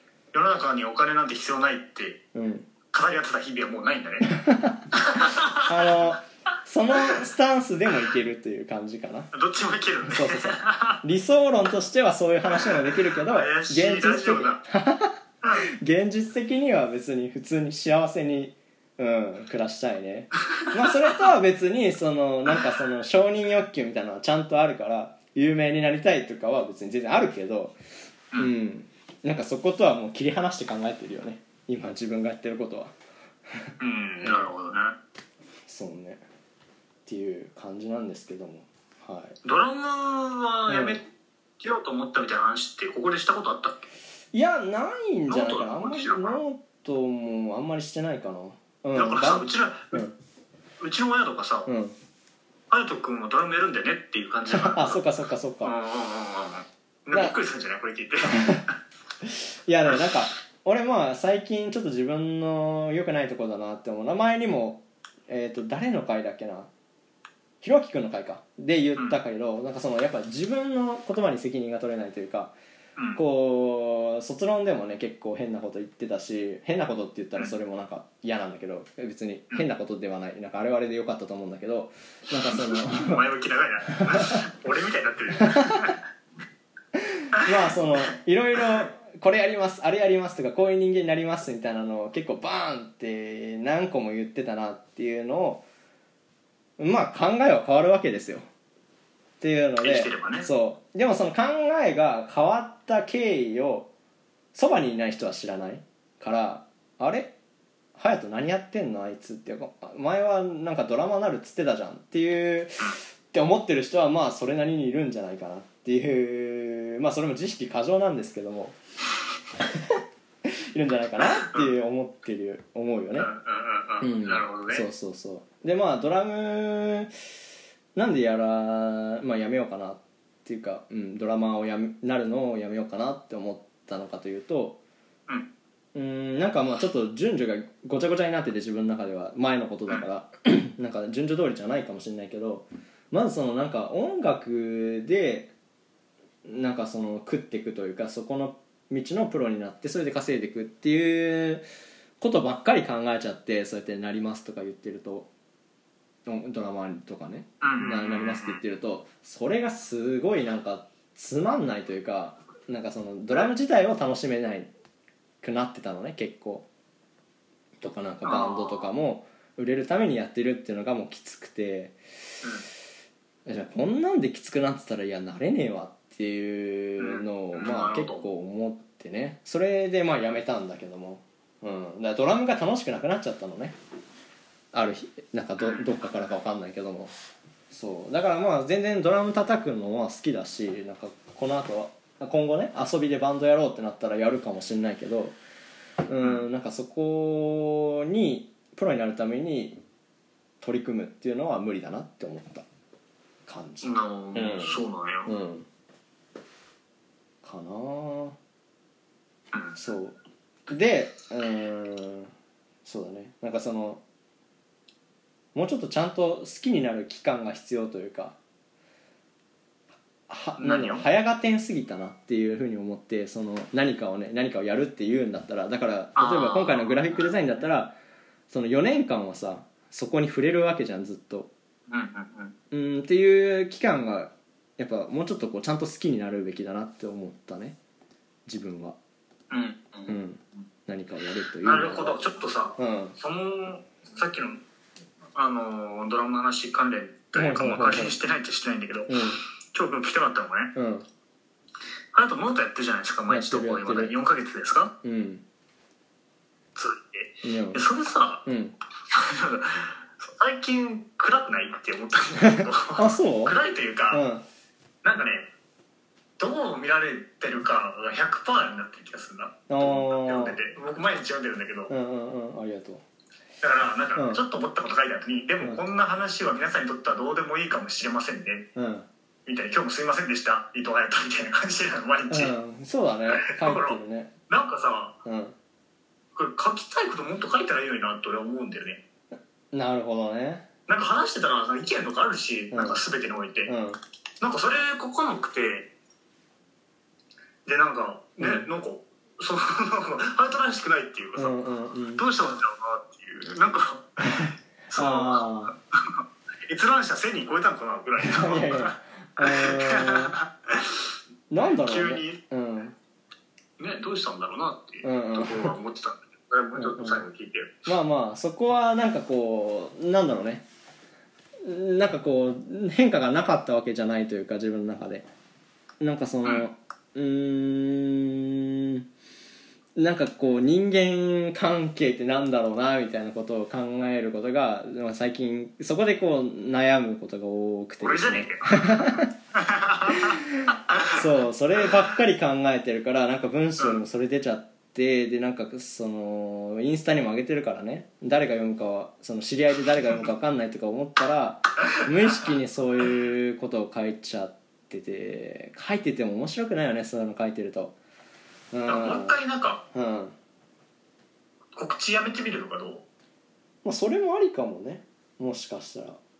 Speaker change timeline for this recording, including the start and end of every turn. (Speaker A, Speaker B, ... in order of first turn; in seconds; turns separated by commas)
Speaker A: 0.3-2.2, Speaker B: 2.3-2.7, Speaker A: 2.9-4.4, Speaker B: 4.3-4.8, Speaker A: 4.9-6.0, Speaker B: 5.5-9.3, Speaker A: 9.3-11.0, Speaker B: 10.1-27.7, Speaker A: 13.2-14.6, Speaker B: 28.4-32.9, Speaker A: 33.8-35.0, Speaker B: 34.2-34.5, Speaker B: 35.6-36.2, Speaker B: 37.0-39.4, Speaker A: 39.4-41.0, Speaker B: 40.7-41.0, Speaker A: 41.6-43.8, Speaker B: 44.3-50.1, Speaker A: 45.3-46.4, Speaker A: 48.9-50.0, Speaker A: 50.8-51.7, Speaker B: 51.6-52.0, Speaker A: 52.7-55.0, Speaker B: 54.5-55.7, Speaker A: 55.6-58.7, Speaker B: 57.1-57.4, Speaker B: 58.3-58.6, Speaker B: 59.2-66.7, Speaker B: 67.6-72.5, Speaker B: 73.1-83.2, Speaker A: 82.5-86.0, Speaker B: 85.5-85.9, Speaker B: 86.9-95.6, Speaker B: 96.8-98.5, Speaker B: 99.4-103.9, Speaker A: 99.8-100.5, Speaker B: 104.5-107.3, Speaker B: 107.9-118.8, Speaker B: 119.6-123.3, Speaker A: 123.2-124.8, Speaker B: 124.0-127.1, Speaker B: 127.9-134.8, Speaker B: 135.9-145.5, Speaker B: 146.4-151.6, Speaker B: 152.2-155.3, Speaker B: 156.2-164.7, Speaker A: 157.6-158.6, Speaker B: 165.4-166.7, Speaker B: 167.8-172.0, Speaker A: 168.2-168.9, Speaker B: 173.4-183.7, Speaker A: 177.0-178.2, Speaker B: 184.7-187.1, Speaker A: 185.6-185.8, Speaker B: 187.7-195.3, Speaker B: 196.1-199.8, Speaker B: 200.6-202.6, Speaker B: 203.5-205.7, Speaker A: 203.8-205.3, Speaker B: 207.4-208.3, Speaker B: 209.8-210.2, Speaker B: 210.7-212.3, Speaker B: 212.8-214.0, Speaker B: 215.5-218.3, Speaker B: 220.3-227.9, Speaker A: 220.6-221.1, Speaker A: 226.2-227.3, Speaker B: 228.5-231.5, Speaker A: 231.9-232.5, Speaker B: 232.7-237.8, Speaker B: 238.5-239.0, Speaker A: 239.5-240.2, Speaker B: 240.1-242.2, Speaker A: 241.6-244.6, Speaker B: 242.8-243.2, Speaker A: 245.3-250.7, Speaker B: 247.3-248.2, Speaker B: 249.1-249.4, Speaker B: 250.7-251.0, Speaker A: 252.1-255.0, Speaker B: 253.3-254.1, Speaker B: 255.0-255.4, Speaker A: 256.7-258.4, Speaker B: 257.4-257.8, Speaker B: 258.4-258.7, Speaker A: 259.1-264.2, Speaker B: 262.4-263.6, Speaker B: 264.1-264.4, Speaker A: 265.0-265.5, Speaker A: 266.4-271.9, Speaker B: 269.7-270.6, Speaker B: 271.9-273.0, Speaker A: 273.6-278.7, Speaker B: 274.1-274.4, Speaker B: 278.7-279.1, Speaker A: 279.4-282.5, Speaker B: 282.3-284.3, Speaker A: 283.3-285.2, Speaker B: 285.2-285.5, Speaker A: 286.3-289.0, Speaker B: 289.7-290.6, Speaker A: 290.9-293.7, Speaker B: 292.7-293.0, Speaker B: 293.7-294.0, Speaker A: 294.4-295.9, Speaker A: 297.6-301.6, Speaker B: 298.4-298.7, Speaker B: 301.4-302.2, Speaker A: 302.1-311.0, Speaker B: 304.4-305.7, Speaker B: 308.2-310.3, Speaker B: 311.5-312.9, Speaker A: 311.6-312.4, Speaker A: 313.8-317.9, Speaker B: 315.0-315.7, Speaker B: 316.7-317.2, Speaker B: 317.9-320.6, Speaker B: 321.6-325.2, Speaker B: 326.0-329.0, Speaker B: 329.9-339.3, Speaker A: 338.0-341.1, Speaker B: 340.1-357.9, Speaker B: 358.7-359.4, Speaker A: 358.9-359.8, Speaker B: 359.9-360.3, Speaker A: 361.7-363.0, Speaker B: 363.8-366.2